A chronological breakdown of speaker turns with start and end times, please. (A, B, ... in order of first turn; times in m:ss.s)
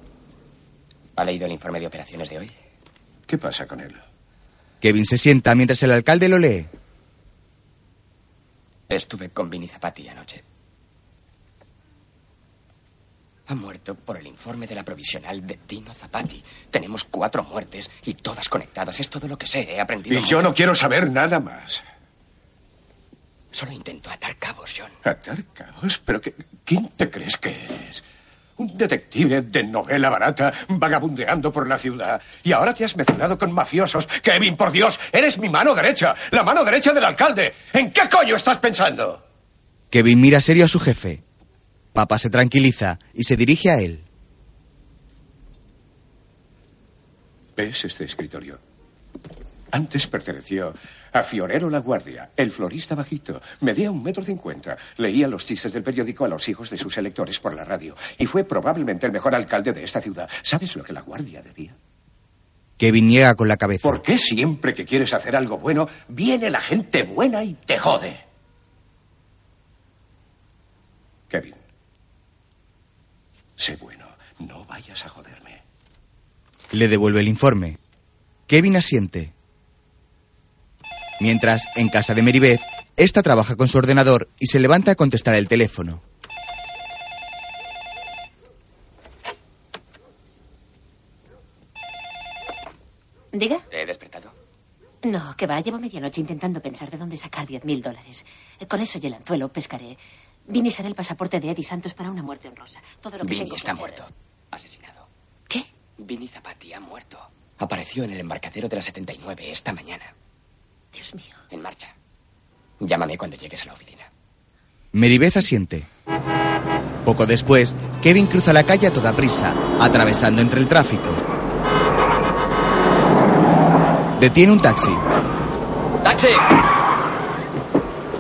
0:01.2-0:02.5 A
0:03.3-0:04.0 B
0:04.8-0:06.7 C
0:08.9-0:10.4 A
0:13.5-0:20.5 A
0:20.1-0:21.8 B
0:23.5-0:25.0 A
0:25.0-0:28.0 B
0:28.6-0:39.2 B
0:39.9-0:41.2 C
0:42.0-0:44.0 C
0:47.6-0:48.6 B
0:49.7-1:01.8 B
1:02.8-1:04.0 C
1:03.8-1:08.2 B
1:11.3-1:11.6 B
1:13.6-1:15.6 B
1:16.7-1:17.8 C
1:18.5-1:19.3 C
1:21.2-1:26.0 C
1:33.3-1:33.6 D
1:33.7-1:34.3 A
1:35.0-1:44.0 D
1:43.2-1:45.1 A
1:46.0-1:50.1 A
1:50.9-1:51.4 D
1:51.5-1:51.9 A
1:52.8-1:54.1 A
1:54.9-1:55.9 C
1:57.0-2:01.2 C
2:04.2-2:05.0 C
2:06.0-2:06.5 A